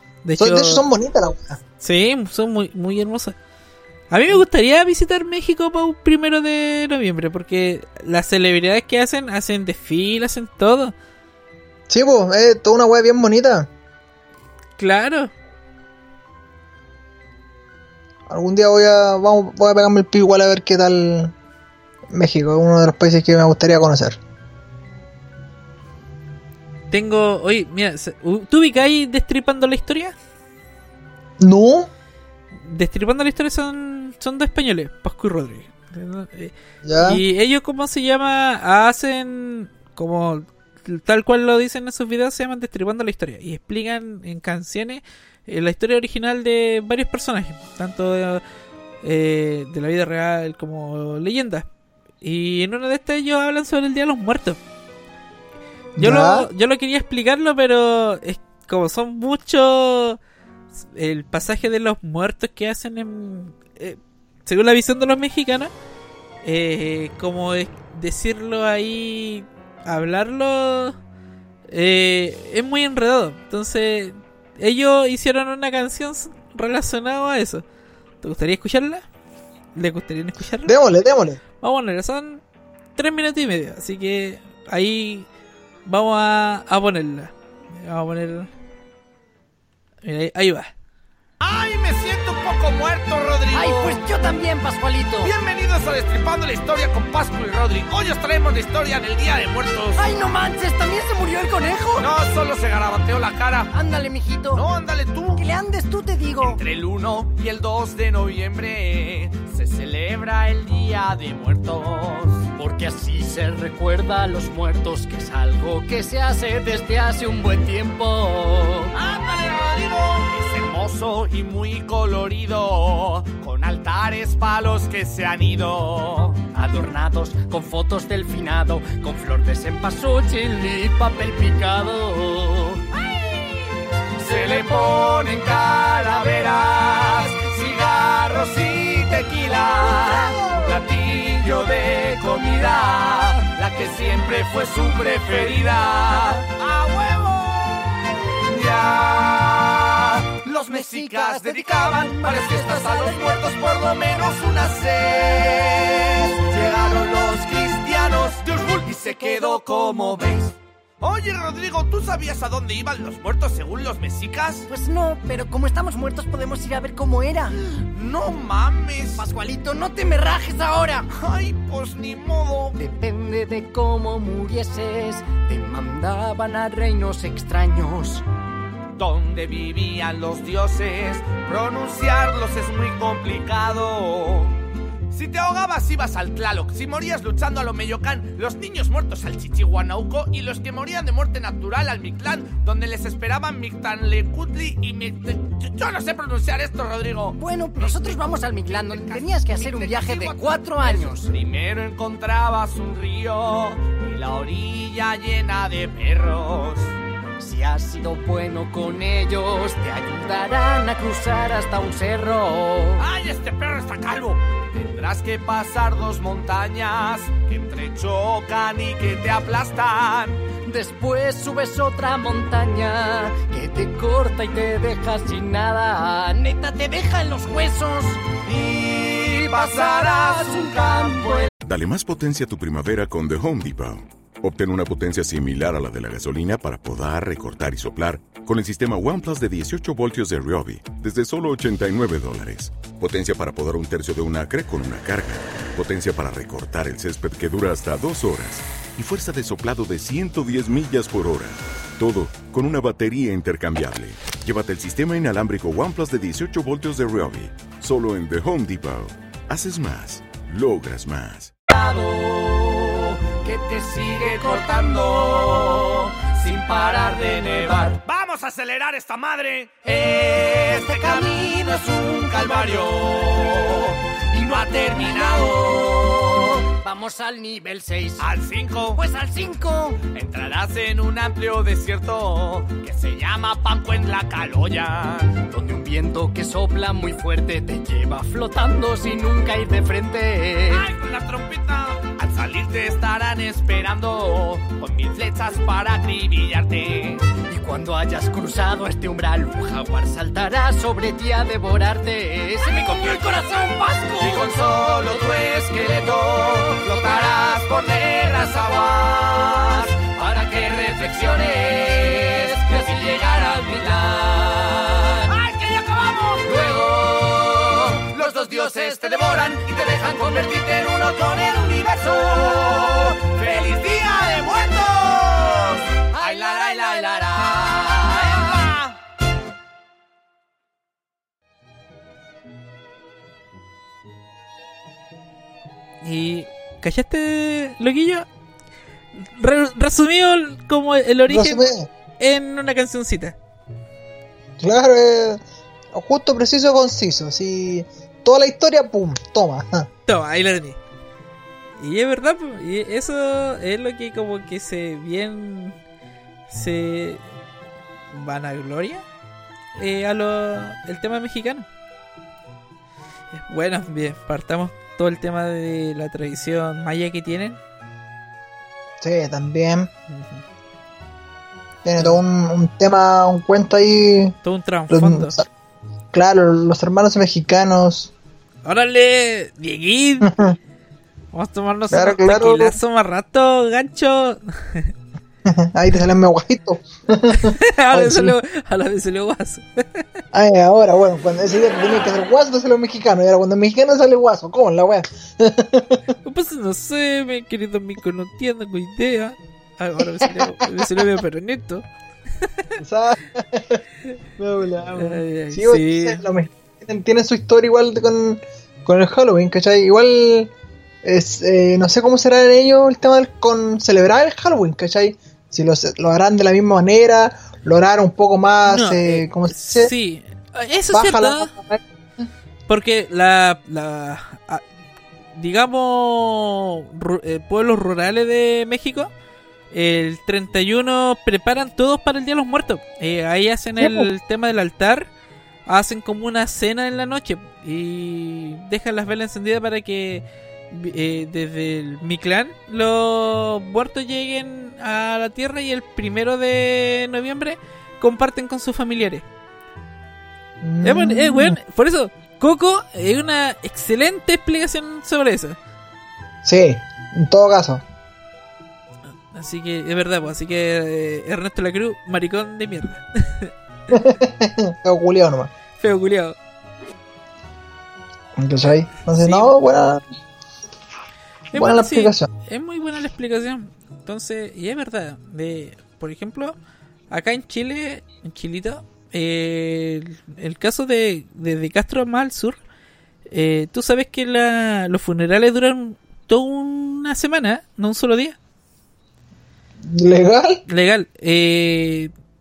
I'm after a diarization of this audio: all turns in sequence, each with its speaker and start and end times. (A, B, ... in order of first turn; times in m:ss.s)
0:00.2-0:00.8 A
0:00.4-0:01.6 B
0:01.8-0:03.4 A
0:04.1-0:10.9 A
0:11.9-0:13.7 B
0:14.8-0:15.3 A
0:18.3-0:21.3 B
0:22.1-0:24.2 B
0:26.9-0:30.2 A
0:31.4-0:31.9 B
0:32.6-0:48.4 A
0:36.8-0:37.2 B
0:49.0-0:51.7 A
0:52.2-0:54.6 A
0:56.0-0:56.5 B
0:56.0-1:00.2 A
1:00.9-1:05.7 A
1:06.4-1:11.0 A
1:11.7-1:17.6 A
1:18.2-1:19.0 A
1:19.8-1:20.7 A
1:20.6-1:21.4 B
1:21.6-1:22.4 A
1:23.0-1:25.3 A
1:25.9-1:28.5 A
1:30.0-1:30.7 A
1:31.4-1:34.1 C
1:33.5-1:35.3 D
1:35.2-1:40.1 C
1:40.0-1:42.2 D
1:42.0-1:43.8 C
1:43.7-1:44.6 D
1:44.5-1:45.5 C
1:45.3-1:46.6 D
1:46.4-1:52.5 C
1:52.6-1:58.9 D
1:58.9-2:06.5 C
2:06.4-2:12.8 D
2:14.2-2:44.7 C
2:30.6-2:33.4 D
2:38.8-2:40.5 D
2:44.7-2:47.6 D
2:47.9-2:49.3 C
2:49.2-2:51.1 D
2:51.1-2:52.8 C
2:52.8-2:58.2 D
2:59.0-3:04.6 C
3:05.1-3:27.0 C
3:17.4-3:21.3 D
3:27.4-3:33.0 D
3:33.0-3:40.4 C
3:40.6-3:48.3 D
3:48.4-3:51.5 C
3:49.5-3:51.5 D
3:51.6-4:21.5 E
4:21.7-4:36.5 C
4:30.6-4:32.9 D
4:34.4-4:35.7 D
4:36.7-4:38.3 D
4:38.2-4:39.0 C
4:38.9-4:40.1 D
4:40.0-4:45.4 C
4:45.5-4:50.8 D
4:50.7-4:57.2 C
4:57.5-5:03.2 D
5:02.6-5:28.9 C
5:04.2-5:04.7 D
5:26.2-5:27.2 D
5:36.0-5:38.3 A
5:39.2-5:41.6 A
5:41.3-5:41.9 B
5:42.2-5:43.4 A
5:44.6-5:45.4 B
5:45.9-5:49.9 B
5:50.1-5:50.8 A
5:51.8-5:55.8 A
5:56.5-5:57.2 A
5:58.1-5:59.0 A
5:59.8-6:01.7 A
6:03.3-6:07.6 A
6:09.0-6:09.9 B
6:10.1-6:10.4 A
6:11.8-6:14.4 B
6:14.4-6:15.3 A
6:14.9-6:15.4 B
6:16.1-6:18.1 B
6:18.6-6:20.3 A
6:20.2-6:20.6 B
6:21.3-6:24.9 A
6:21.9-6:22.8 B
6:25.4-6:28.4 B
6:27.3-6:30.0 A
6:30.3-6:36.0 B
6:36.2-6:41.8 A
6:40.2-6:40.9 B
6:42.8-6:43.8 B
6:44.4-6:50.5 B
6:45.0-6:46.2 A
6:51.0-6:59.9 B
6:58.7-7:01.5 A
7:00.9-7:02.2 B
7:02.7-7:04.6 A
7:05.4-7:09.1 A
7:09.7-7:15.1 A
7:13.8-7:14.1 B
7:15.7-7:29.3 A
7:30.6-7:31.6 B
7:30.8-7:35.6 A
7:36.4-7:37.8 B
7:39.3-7:43.5 A
7:43.9-7:45.5 B
7:45.8-7:46.4 A
7:48.4-7:50.0 B
7:49.1-7:49.5 A
7:51.5-7:52.3 B
7:51.5-7:56.6 A
7:57.1-8:02.6 A
8:03.3-8:08.4 A
8:09.8-8:10.6 B
8:10.7-8:12.1 A